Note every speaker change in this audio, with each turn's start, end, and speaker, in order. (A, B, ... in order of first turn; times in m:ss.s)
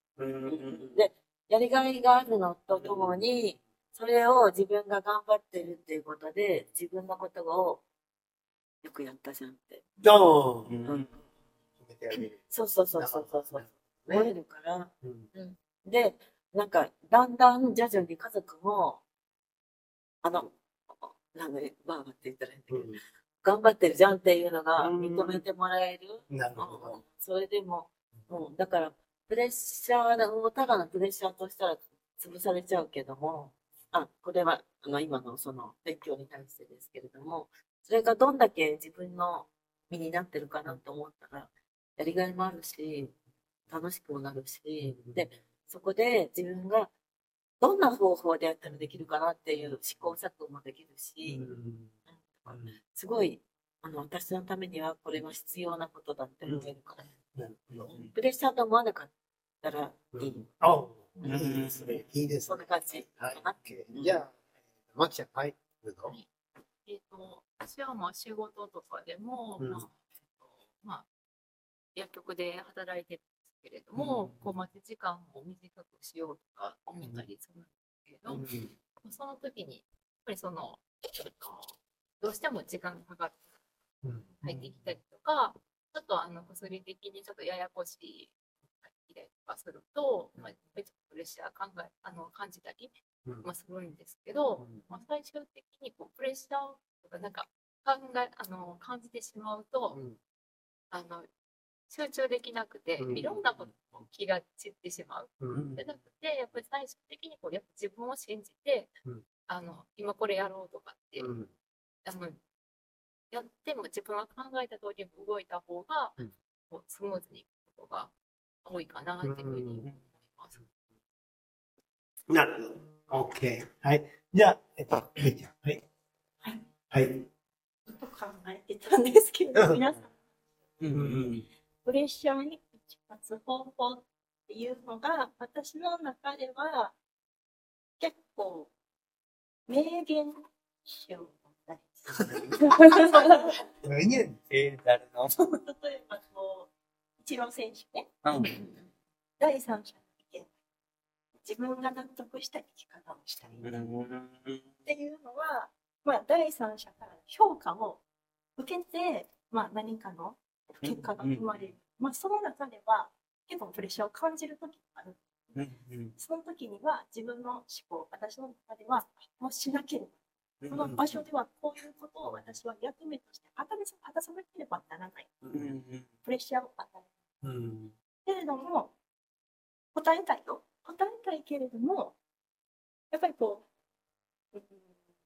0:00.2-0:00.9 A
0:00.2-0:00.8 B
0:00.4-0:07.8 C
0:02.7-0:03.1 B
0:08.8-0:09.8 C
0:10.0-0:10.8 A
0:10.6-0:11.1 B
0:10.9-0:11.1 C
0:11.8-0:14.3 A
0:12.3-0:19.0 C
0:15.0-0:15.3 A
0:20.2-0:43.1 C
0:22.7-0:23.0 A
0:24.8-0:25.4 A
0:26.3-0:27.0 A
0:43.7-0:46.9 C
0:44.8-0:45.3 A
0:47.6-0:51.4 C
0:51.2-0:51.9 A
0:52.1-0:57.1 C
0:52.5-0:52.8 A
0:56.4-0:56.7 A
0:57.3-0:57.9 A
0:57.8-0:58.1 B
0:57.9-0:59.1 C
0:59.6-1:00.5 C
1:00.1-1:04.3 A
1:01.2-1:02.0 B
1:02.4-1:04.2 C
1:04.9-1:06.2 A
1:06.8-1:11.0 D
1:09.6-1:09.8 A
1:11.9-1:18.4 D
1:14.0-1:14.5 A
1:16.9-1:17.2 A
1:18.3-1:18.7 A
1:19.0-1:21.7 D
1:22.2-1:23.4 D
1:24.0-1:24.7 A
1:24.4-1:40.0 D
1:34.6-1:34.9 A
1:39.9-1:40.2 A
1:40.9-1:41.3 D
1:41.9-1:48.9 D
1:43.0-1:43.5 A
1:45.4-1:45.8 A
1:45.5-1:45.8 B
1:49.5-1:51.3 D
1:51.2-1:51.5 A
1:52.0-1:52.4 D
1:53.3-1:56.2 D
1:56.7-1:58.1 D
1:58.6-2:00.6 D
1:59.2-1:59.8 A
2:02.3-2:05.8 A
2:06.9-2:07.2 A
2:07.9-2:10.2 E
2:10.8-2:11.5 B
2:10.9-2:11.3 A
2:11.8-2:16.9 E
2:18.0-2:18.7 E
2:19.7-2:23.5 E
2:22.2-2:23.0 A
2:22.7-2:23.1 B
2:23.8-2:24.4 A
2:24.5-2:25.4 B
2:25.6-2:26.7 E
2:27.2-2:28.7 E
2:28.2-2:28.6 B
2:29.4-2:30.5 E
2:31.4-2:33.8 E
2:33.6-2:34.6 B
2:34.8-2:38.0 E
2:38.6-2:45.6 E
2:40.8-2:41.6 B
2:45.5-2:46.1 B
2:46.2-2:50.1 E
2:50.6-2:51.0 B
2:50.7-2:55.3 E
2:55.5-2:56.1 B
2:56.2-2:57.1 E
2:57.4-2:57.9 A
2:58.2-2:58.9 E
2:59.9-3:02.2 E
3:03.1-3:03.6 E
3:04.5-3:04.9 E